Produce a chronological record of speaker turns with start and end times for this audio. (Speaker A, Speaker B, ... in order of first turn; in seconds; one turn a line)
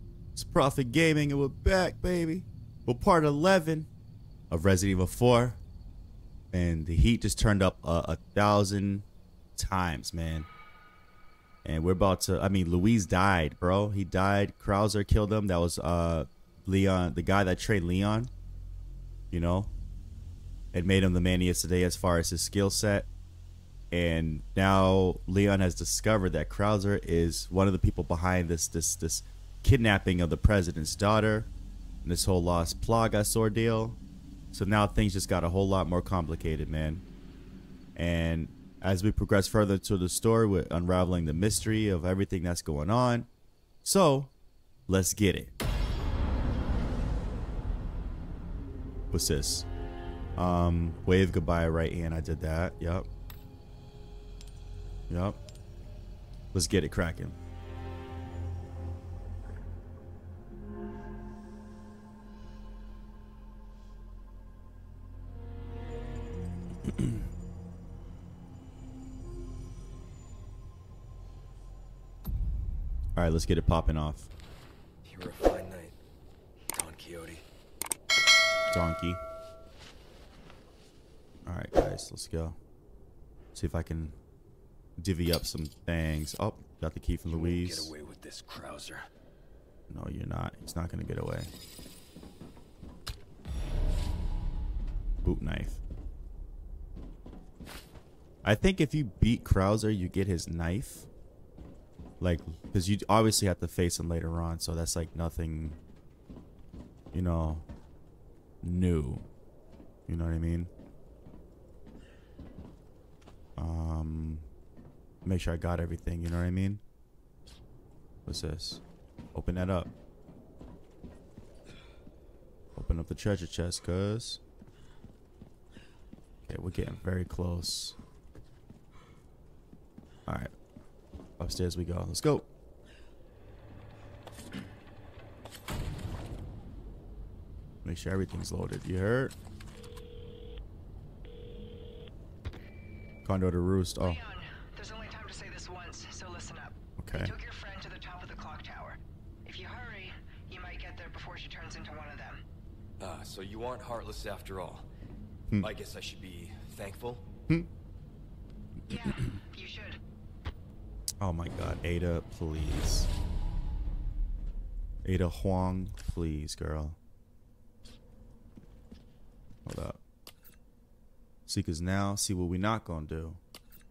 Speaker A: 0.3-3.9
Speaker A: 4.5-5.6
Speaker A: 6.5-10.5
Speaker A: 11.6-18.3
Speaker A: 19.3-19.7
Speaker A: 20.7-23.1
Speaker A: 23.9-31.5
Speaker A: 32.0-34.0
Speaker A: 34.5-37.0
Speaker A: 38.0-43.3
Speaker A: 43.8-44.3
Speaker A: 44.9-45.5
Speaker A: 49.1-49.7
Speaker A: 50.4-53.1
Speaker A: 55.1-55.4
Speaker A: 56.5-57.4
Speaker A: 73.2-74.3
Speaker B: 75.0-76.0
Speaker B: 76.7-77.4
Speaker A: 78.7-79.2
Speaker A: 81.5-82.6
Speaker A: 83.5-84.2
Speaker A: 85.0-87.9
Speaker B: 87.3-89.1
Speaker A: 89.9-91.5
Speaker A: 95.2-95.8
Speaker A: 98.4-101.1
Speaker A: 102.2-105.8
Speaker A: 107.1-107.7
Speaker A: 108.6-109.2
Speaker A: 110.1-110.7
Speaker A: 113.6-114.5
Speaker A: 115.2-116.8
Speaker A: 118.3-118.8
Speaker A: 119.3-119.9
Speaker A: 122.8-124.4
Speaker A: 126.5-128.0
Speaker A: 130.3-130.5
Speaker A: 131.4-132.5
Speaker A: 137.8-139.3
Speaker A: 143.2-144.2
Speaker C: 144.0-152.4
Speaker A: 147.0-147.3
Speaker B: 153.0-154.9
Speaker B: 155.6-157.3
Speaker C: 158.9-160.0
Speaker A: 158.9-159.4
Speaker A: 161.2-163.1
Speaker A: 165.0-167.0
Speaker A: 169.7-170.0
Speaker A: 171.5-173.4